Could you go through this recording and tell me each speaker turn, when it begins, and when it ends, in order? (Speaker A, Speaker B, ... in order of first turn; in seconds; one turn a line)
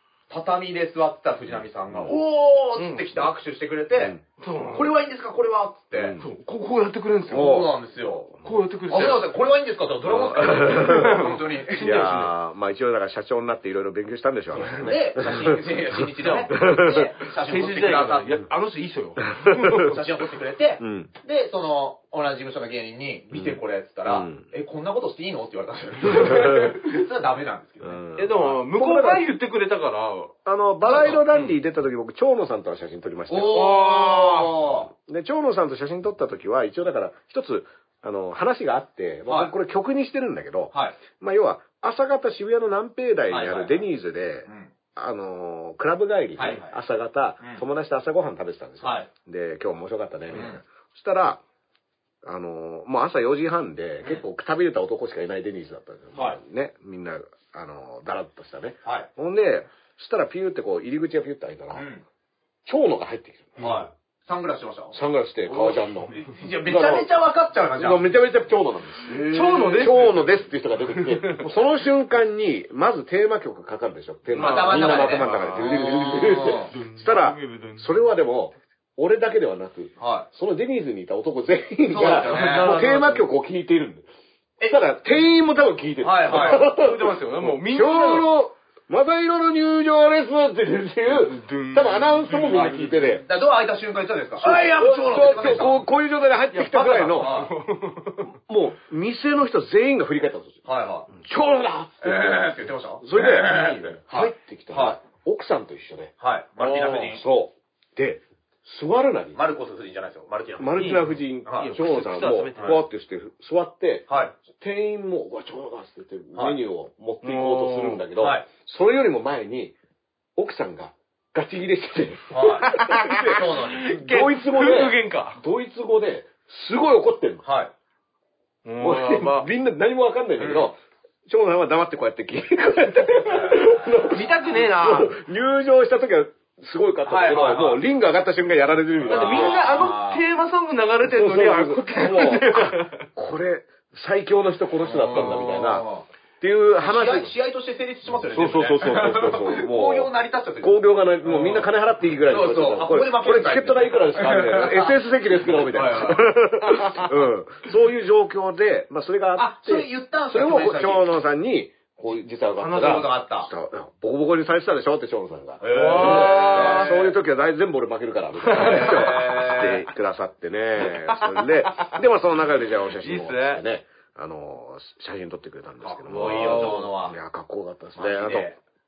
Speaker A: 0.3-6.2
Speaker B: 1.6-2.2
Speaker C: 2.8-3.1
Speaker B: 4.0-4.2
Speaker C: 4.4-4.9
Speaker B: 6.0-6.2
Speaker C: 6.2-7.7
Speaker A: 7.3-8.3
Speaker B: 7.3-8.5
Speaker C: 8.4-9.2
Speaker A: 8.9-12.2
Speaker B: 10.1-17.1
Speaker C: 10.6-12.3
Speaker C: 14.6-14.9
Speaker A: 14.8-18.4
Speaker C: 16.2-16.7
Speaker C: 17.3-20.0
Speaker B: 19.4-19.9
Speaker A: 19.7-28.1
Speaker B: 20.8-21.1
Speaker B: 23.3-24.4
Speaker B: 26.1-26.8
Speaker B: 27.8-29.3
Speaker C: 28.2-30.4
Speaker B: 30.4-51.4
Speaker A: 30.9-31.2
Speaker C: 31.1-31.5
Speaker A: 33.3-34.9
Speaker C: 33.5-34.4
Speaker A: 39.3-39.5
Speaker A: 40.7-41.0
Speaker A: 43.3-43.8
Speaker A: 44.5-44.7
Speaker A: 46.4-46.8
Speaker A: 48.8-49.1
Speaker A: 50.3-50.6
Speaker B: 52.2-61.9
Speaker A: 56.1-56.4
Speaker A: 61.7-62.0
Speaker B: 62.7-63.6
Speaker C: 63.6-63.9
Speaker A: 63.6-65.0
Speaker B: 64.9-66.1
Speaker C: 65.5-66.3
Speaker A: 66.1-68.1
Speaker B: 66.7-67.1
Speaker B: 67.8-84.1
Speaker A: 69.1-69.8
Speaker C: 69.1-71.5
Speaker C: 74.3-78.1
Speaker A: 74.3-76.7
Speaker A: 80.0-80.3
Speaker A: 81.9-82.8
Speaker C: 82.0-83.3
Speaker A: 84.6-84.9
Speaker B: 84.7-93.2
Speaker A: 86.0-86.7
Speaker C: 86.3-88.3
Speaker C: 91.0-93.2
Speaker A: 92.5-95.8
Speaker B: 94.4-97.4
Speaker C: 96.5-98.3
Speaker A: 97.1-97.5
Speaker B: 98.5-100.6
Speaker A: 100.7-101.1
Speaker B: 101.2-109.4
Speaker A: 102.0-105.0
Speaker C: 103.4-104.0
Speaker A: 106.2-107.2
Speaker A: 109.3-111.7
Speaker B: 110.6-119.8
Speaker C: 110.8-112.8
Speaker A: 114.1-114.3
Speaker A: 116.3-116.6
Speaker C: 117.2-118.0
Speaker A: 118.2-118.5
Speaker B: 120.4-127.4
Speaker A: 122.3-124.0
Speaker C: 122.7-125.4
Speaker A: 127.4-127.7
Speaker C: 128.7-129.5
Speaker B: 128.8-139.8
Speaker A: 130.4-130.7
Speaker A: 133.2-134.0
Speaker C: 134.0-135.2
Speaker A: 137.1-137.8
Speaker A: 139.0-140.2
Speaker C: 139.1-143.1
Speaker B: 141.1-145.9
Speaker A: 144.8-146.1
Speaker C: 145.2-145.5
Speaker B: 146.4-147.3
Speaker A: 146.8-151.7
Speaker B: 148.3-178.5
Speaker A: 152.3-157.1
Speaker A: 159.4-161.1
Speaker A: 162.6-163.5
Speaker C: 162.6-163.0
Speaker A: 165.6-167.1
Speaker C: 165.7-167.1
Speaker C: 168.5-169.8
Speaker A: 168.5-169.8
Speaker C: 170.8-172.0
Speaker C: 172.9-173.6
Speaker A: 175.8-177.2
Speaker C: 176.1-176.9
Speaker A: 178.0-178.6